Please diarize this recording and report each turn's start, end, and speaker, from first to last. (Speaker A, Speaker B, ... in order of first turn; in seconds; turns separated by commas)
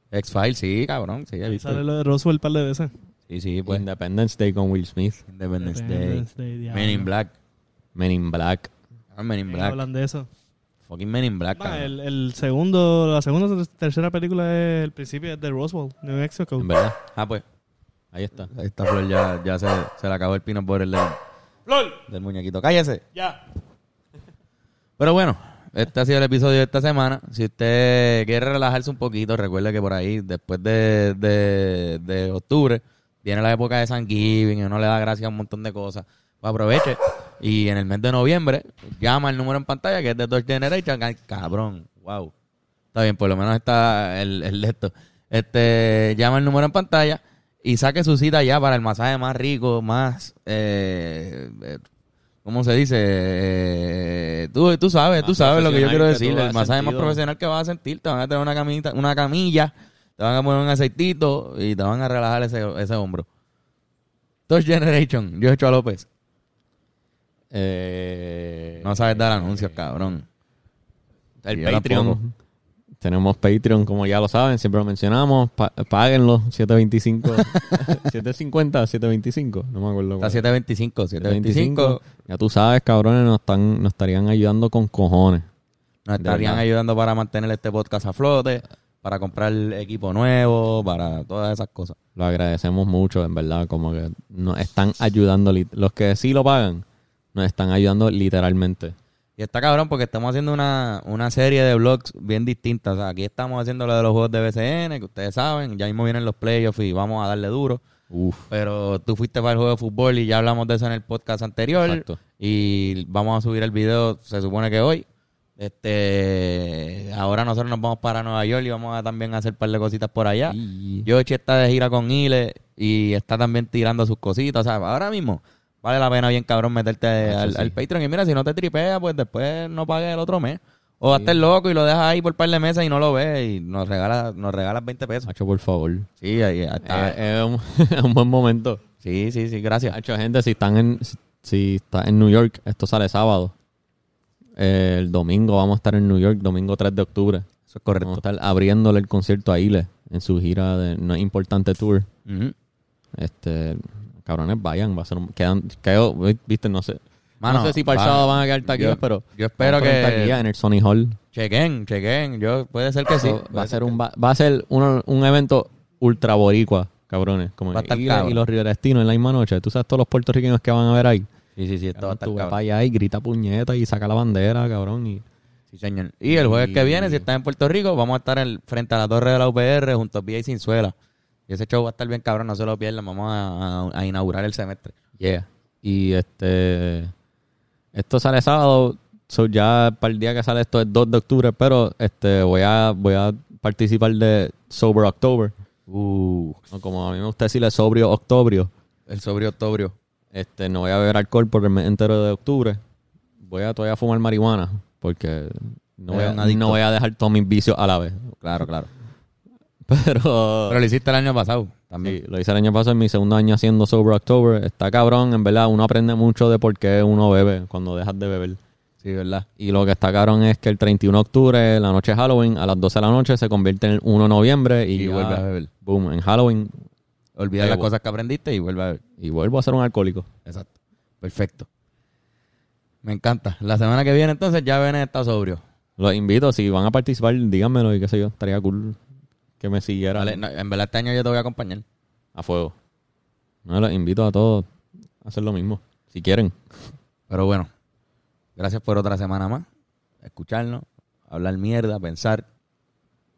Speaker A: 0.1-1.8, Speaker B: 1.5-2.9, Speaker A: 3.3-3.8, Speaker C: 3.7-5.2, Speaker A: 5.3-7.3, Speaker B: 5.6-7.1, Speaker C: 7.9-8.7, Speaker A: 9.1-9.8, Speaker B: 9.5-10.3, Speaker A: 10.9-11.9, Speaker B: 11.6-16.7, Speaker C: 16.6-16.9, Speaker A: 17.1-17.4, Speaker C: 18.1-18.5, Speaker A: 18.5-21.1, Speaker B: 21.7-22.0, Speaker A: 22.1-23.0, Speaker A: 25.0-42.3, Speaker A: 42.9-51.8, Speaker A: 52.4-63.2, Speaker C: 55.2-57.2, Speaker A: 64.5-66.1, Speaker C: 67.5-70.1, Speaker A: 68.8-70.2, Speaker C: 71.4-72.3, Speaker A: 71.5-72.2, Speaker C: 73.0-80.5, Speaker A: 77.4-78.0, Speaker A: 80.2-82.0, Speaker C: 81.2-85.5, Speaker A: 86.0-92.0, Speaker C: 86.2-86.6, Speaker C: 92.2-98.9, Speaker A: 99.4-107.8, Speaker C: 108.1-108.5, Speaker A: 108.5-115.0, Speaker C: 111.8-112.2, Speaker A: 115.6-135.3, Speaker C: 120.5-121.1, Speaker C: 127.2-127.8, Speaker C: 131.1-131.4, Speaker C: 135.2-136.1, Speaker A: 136.2-137.2, Speaker C: 136.8-138.8, Speaker A: 139.0-139.9, Speaker C: 139.9-143.5, Speaker C: 144.6-147.4, Speaker A: 147.7-148.2, Speaker C: 148.0-152.1, Speaker A: 152.2-152.5, Speaker C: 153.2-161.2, Speaker A: 157.4-160.4, Speaker A: 161.3-163.9, Speaker C: 163.1-171.3, Speaker A: 167.7-168.4, Speaker A: 171.6-172.5, Speaker C: 171.9-175.2, Speaker A: 175.7-180.9, Speaker C: 176.3-177.3, Speaker A: 181.5-184.9, Speaker C: 185.2-187.1, Speaker C: 187.9-195.5, Speaker A: 195.9-196.6, Speaker C: 196.7-198.7, Speaker A: 199.1-199.9, Speaker C: 200.3-202.8, Speaker C: 203.4-208.7, Speaker A: 206.1-206.8, Speaker A: 208.4-208.9, Speaker C: 209.9-210.8, Speaker A: 210.7-212.2, Speaker C: 212.0-218.6, Speaker A: 219.0-219.4, Speaker C: 219.6-226.8, Speaker A: 224.9-225.7, Speaker A: 227.4-229.0, Speaker C: 227.6-227.9, Speaker C: 229.2-230.3, Speaker A: 230.4-231.7, Speaker A: 233.0-235.6, Speaker C: 236.0-239.0, Speaker C: 239.6-240.4, Speaker A: 240.1-241.8, Speaker C: 242.3-242.7, Speaker C: 243.7-244.7, Speaker C: 245.2-246.6, Speaker A: 247.3-247.7, Speaker A: 248.6-249.7, Speaker A: 250.2-252.4